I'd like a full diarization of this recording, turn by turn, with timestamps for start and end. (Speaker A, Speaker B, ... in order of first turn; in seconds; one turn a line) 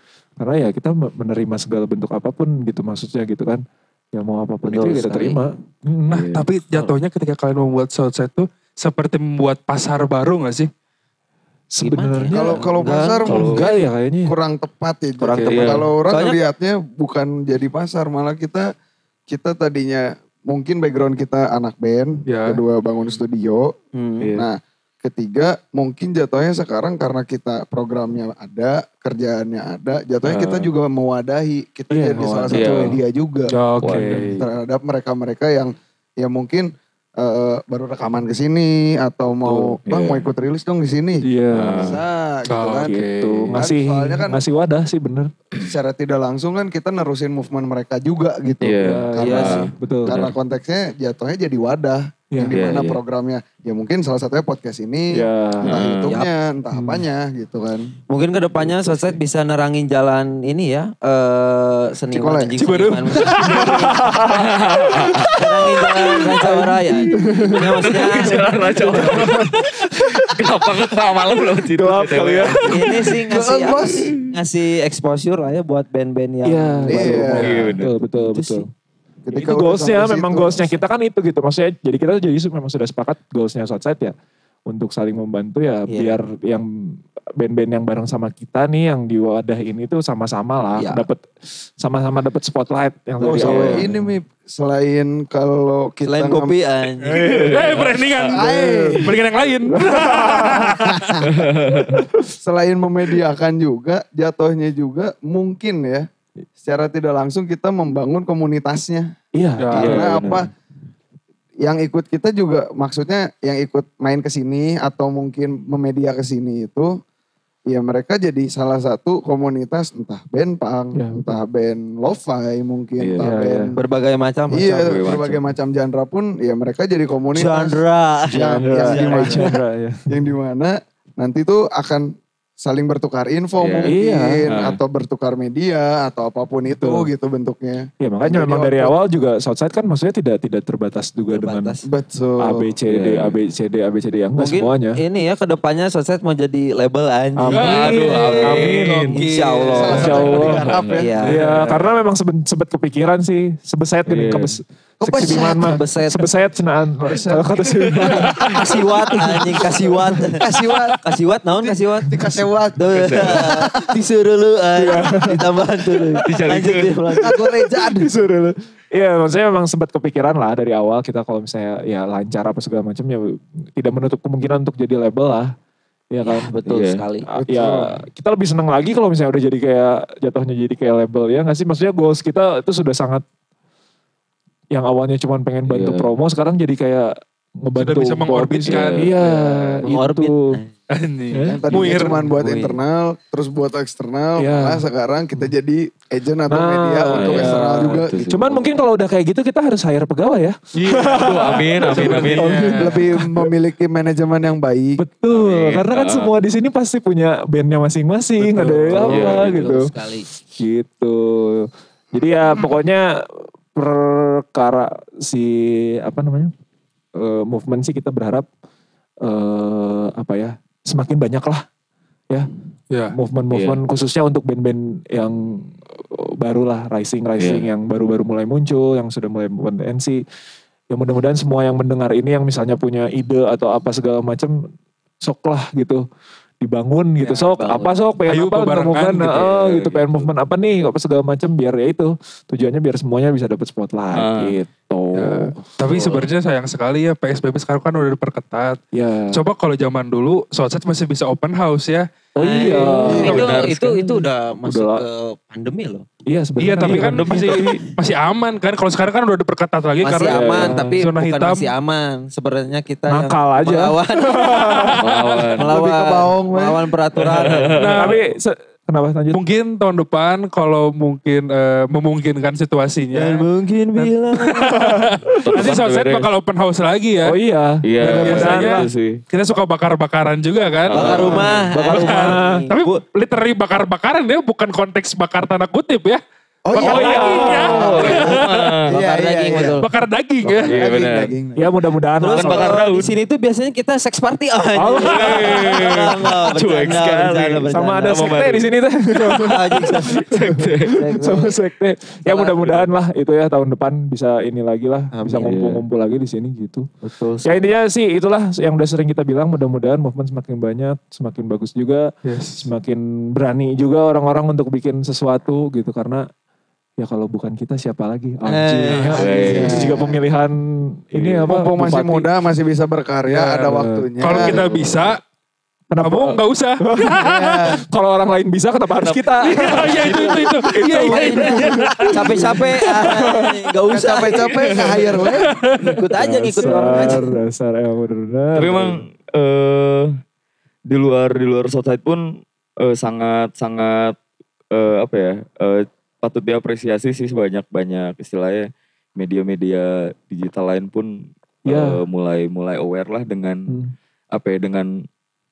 Speaker A: 0.4-6.3
Speaker B: 4.6-5.4
Speaker C: 6.1-6.5
Speaker D: 6.1-10.7
Speaker A: 11.7-12.7
Speaker B: 11.8-13.4
Speaker E: 12.3-18.7
Speaker C: 13.3-13.7
Speaker A: 13.3-14.3
Speaker A: 15.2-15.9
Speaker C: 15.3-15.9
Speaker B: 16.1-16.4
Speaker E: 19.3-23.7
Speaker D: 22.3-22.6
Speaker B: 23.9-24.3
Speaker C: 24.2-24.5
Speaker E: 24.3-33.5
Speaker C: 30.2-30.7
Speaker A: 31.9-33.0
Speaker C: 32.5-33.0
Speaker D: 33.5-34.4
Speaker C: 33.8-34.4
Speaker E: 34.4-43.0
Speaker A: 39.4-39.8
Speaker C: 39.9-40.3
Speaker A: 41.2-42.0
Speaker C: 41.5-42.0
Speaker D: 42.5-43.6
Speaker A: 42.8-45.3
Speaker E: 43.5-44.4
Speaker E: 45.6-57.9
Speaker C: 48.6-50.4
Speaker A: 48.8-50.3
Speaker B: 49.2-49.6
Speaker C: 52.5-53.0
Speaker A: 55.1-55.7
Speaker C: 55.6-56.2
Speaker A: 56.7-57.0
Speaker B: 58.1-64.0
Speaker E: 62.1-62.6
Speaker D: 62.6-64.0
Speaker A: 63.5-65.3
Speaker C: 64.3-65.4
Speaker B: 65.3-69.3
Speaker A: 66.4-67.9
Speaker C: 67.3-72.9
Speaker A: 68.6-70.3
Speaker A: 71.7-73.0
Speaker B: 72.5-77.4
Speaker E: 73.3-74.2
Speaker C: 73.7-74.1
Speaker A: 76.5-78.7
Speaker E: 76.9-77.7
Speaker C: 77.3-78.0
Speaker B: 78.1-78.7
Speaker E: 79.2-80.7
Speaker A: 79.3-84.2
Speaker A: 84.7-93.9
Speaker B: 85.9-86.2
Speaker B: 90.8-91.1
Speaker E: 93.2-96.6
Speaker B: 93.3-93.7
Speaker C: 93.3-94.0
Speaker B: 96.0-97.8
Speaker C: 97.1-98.0
Speaker D: 97.1-101.1
Speaker E: 98.2-99.2
Speaker A: 98.3-99.0
Speaker A: 99.7-100.9
Speaker E: 100.8-101.3
Speaker C: 101.3-102.0
Speaker A: 101.9-102.3
Speaker E: 102.4-106.1
Speaker E: 106.6-109.1
Speaker A: 109.3-110.0
Speaker D: 109.6-110.0
Speaker E: 109.7-110.5
Speaker C: 109.8-110.5
Speaker E: 111.6-117.0
Speaker E: 117.7-123.8
Speaker A: 121.0-121.4
Speaker C: 123.0-123.3
Speaker A: 123.2-123.8
Speaker B: 123.8-124.9
Speaker E: 124.5-127.8
Speaker C: 124.8-125.5
Speaker B: 127.3-129.5
Speaker E: 128.3-129.5
Speaker A: 128.3-130.1
Speaker E: 130.1-138.9
Speaker C: 133.6-133.9
Speaker A: 133.9-134.4
Speaker C: 134.5-134.8
Speaker A: 136.7-137.1
Speaker A: 138.0-141.7
Speaker B: 141.3-141.8
Speaker E: 141.9-142.7
Speaker A: 142.4-145.0
Speaker C: 142.9-143.3
Speaker B: 144.4-151.4
Speaker A: 147.4-149.2
Speaker C: 147.5-149.2
Speaker D: 147.5-150.4
Speaker E: 149.8-151.5
Speaker A: 149.8-150.7
Speaker C: 149.9-151.1
Speaker D: 151.2-151.8
Speaker A: 151.2-160.3
Speaker C: 154.1-154.6
Speaker B: 155.0-156.3
Speaker E: 155.2-155.5
Speaker E: 157.0-158.7
Speaker C: 158.0-158.5
Speaker B: 158.4-160.4
Speaker E: 160.4-161.0
Speaker B: 161.0-162.2
Speaker E: 161.6-163.9
Speaker B: 162.8-167.4
Speaker C: 162.9-163.5
Speaker A: 164.8-165.4
Speaker C: 166.2-167.0
Speaker E: 167.2-168.1
Speaker A: 167.5-175.5
Speaker A: 176.1-176.6
Speaker B: 176.2-177.3
Speaker C: 176.7-177.0
Speaker A: 177.3-183.2
Speaker E: 177.4-177.9
Speaker A: 184.7-190.6
Speaker C: 185.7-186.1
Speaker D: 187.8-189.2
Speaker C: 188.6-189.9
Speaker B: 189.9-190.7
Speaker D: 190.9-192.2
Speaker A: 191.3-192.3
Speaker E: 191.4-198.2
Speaker B: 192.3-192.8
Speaker A: 194.4-194.8
Speaker A: 196.5-203.5
Speaker C: 197.1-198.7
Speaker D: 200.8-201.3
Speaker C: 200.9-202.7
Speaker D: 201.8-202.9
Speaker E: 202.7-205.0
Speaker A: 205.0-209.9
Speaker C: 205.3-206.3
Speaker B: 208.9-210.3
Speaker C: 208.9-209.6
Speaker A: 210.5-216.5
Speaker A: 217.2-218.5
Speaker A: 219.2-221.7
Speaker D: 222.9-223.2
Speaker A: 223.1-230.2
Speaker C: 223.5-223.8
Speaker C: 227.4-227.7
Speaker A: 230.9-234.7
Speaker A: 235.2-236.1
Speaker A: 236.6-245.6
Speaker B: 237.2-237.9
Speaker D: 238.3-239.5
Speaker C: 239.3-240.3
Speaker C: 244.1-244.6
Speaker D: 245.1-248.8
Speaker B: 245.9-246.2
Speaker A: 248.9-249.4
Speaker D: 249.3-253.5
Speaker A: 252.4-254.1
Speaker B: 252.4-256.1
Speaker E: 253.1-253.5
Speaker C: 253.2-254.0
Speaker A: 254.6-255.0
Speaker A: 256.3-257.8
Speaker D: 256.6-261.7
Speaker C: 256.8-257.8
Speaker B: 260.0-265.0
Speaker A: 260.3-260.9
Speaker C: 260.6-260.9
Speaker A: 263.1-265.1
Speaker C: 265.0-265.7
Speaker B: 265.6-267.9
Speaker E: 265.6-266.9
Speaker C: 267.2-268.2
Speaker D: 267.8-268.2
Speaker A: 267.9-269.4
Speaker D: 269.3-277.4
Speaker B: 273.1-274.9
Speaker A: 275.0-275.4
Speaker C: 275.4-276.3
Speaker A: 277.2-278.9
Speaker C: 277.8-279.2
Speaker D: 278.1-286.2
Speaker C: 280.9-281.6
Speaker B: 280.9-283.0
Speaker A: 281.0-282.6
Speaker E: 286.7-289.8
Speaker D: 286.7-288.8
Speaker A: 286.7-288.0
Speaker B: 287.0-288.2
Speaker C: 287.6-288.9
Speaker B: 288.9-289.9
Speaker D: 289.8-290.8
Speaker E: 290.4-291.7
Speaker C: 290.6-291.3
Speaker A: 291.6-292.8
Speaker B: 292.2-298.3
Speaker C: 292.3-293.1
Speaker A: 294.8-295.9
Speaker C: 295.0-298.7
Speaker A: 297.7-306.9
Speaker B: 299.4-300.3
Speaker C: 299.9-301.1
Speaker B: 300.9-301.6
Speaker B: 302.3-302.9
Speaker B: 305.1-305.6
Speaker C: 305.4-305.8
Speaker B: 307.0-307.7
Speaker A: 307.4-316.3
Speaker D: 312.2-312.7
Speaker A: 317.0-322.3
Speaker B: 318.4-320.0
Speaker C: 319.1-319.9
Speaker E: 319.4-320.2
Speaker E: 321.4-325.0
Speaker D: 323.3-325.2
Speaker A: 323.7-324.7
Speaker A: 325.9-327.3
Speaker D: 326.0-327.7
Speaker E: 327.2-327.8
Speaker A: 327.8-333.5
Speaker C: 329.0-330.6
Speaker D: 329.4-332.6
Speaker B: 330.9-334.7
Speaker E: 333.9-335.5
Speaker D: 335.2-336.0
Speaker B: 335.8-337.3
Speaker A: 336.2-339.0
Speaker C: 338.6-340.2
Speaker C: 340.9-344.2
Speaker C: 344.7-353.8
Speaker A: 351.7-352.0
Speaker A: 353.7-353.9
Speaker C: 354.3-355.1